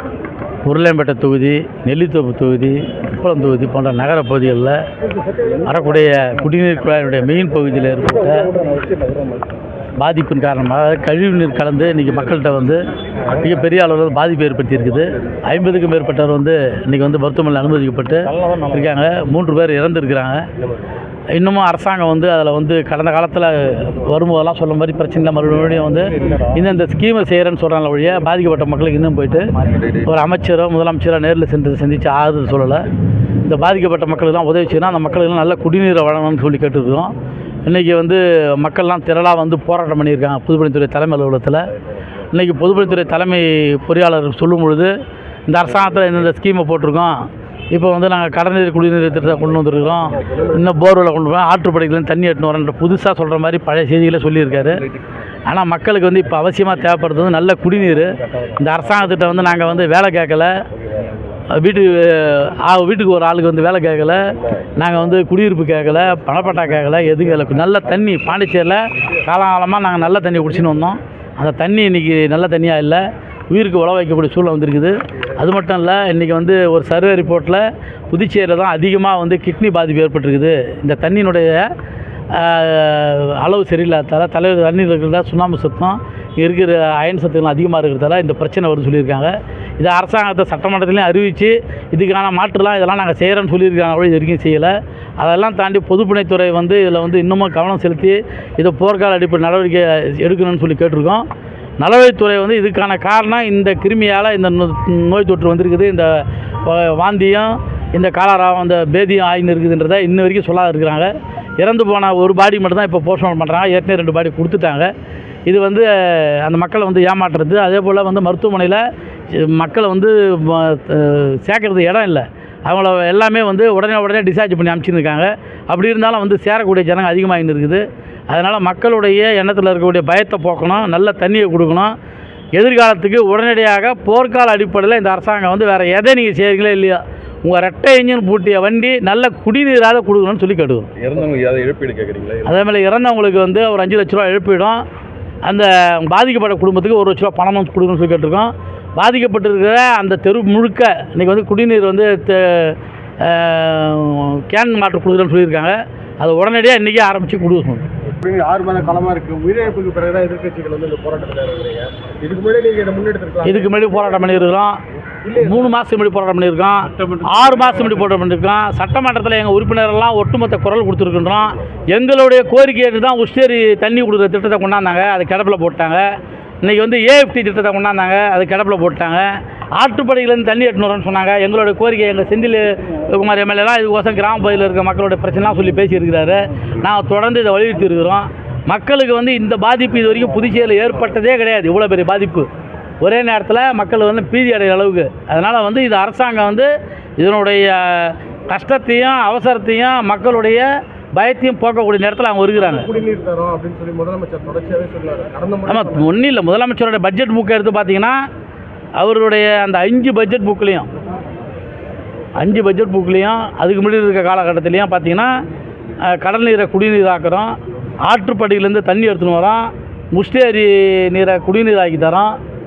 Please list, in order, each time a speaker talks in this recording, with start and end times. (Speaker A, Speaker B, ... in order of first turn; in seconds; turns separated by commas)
Speaker A: 0.6-4.9, Speaker A: 5.6-8.6, Speaker B: 8.6-9.4, Speaker A: 10.0-20.5, Speaker A: 21.3-32.9, Speaker A: 33.4-37.1, Speaker A: 37.6-44.9, Speaker A: 45.5-54.9, Speaker A: 55.5-60.6, Speaker A: 61.5-81.7, Speaker A: 82.3-101.3, Speaker A: 101.8-114.9, Speaker A: 115.5-131.9, Speaker A: 132.6-140.9, Speaker B: 141.0-142.4, Speaker A: 142.4-144.8, Speaker A: 145.4-157.8, Speaker C: 158.2-163.9, Speaker A: 163.4-164.8, Speaker C: 165.2-165.7, Speaker A: 165.3-192.5, Speaker A: 193.0-202.9, Speaker C: 202.7-206.2, Speaker A: 205.7-208.2, Speaker A: 209.0-210.9, Speaker A: 212.3-215.3, Speaker A: 216.0-222.4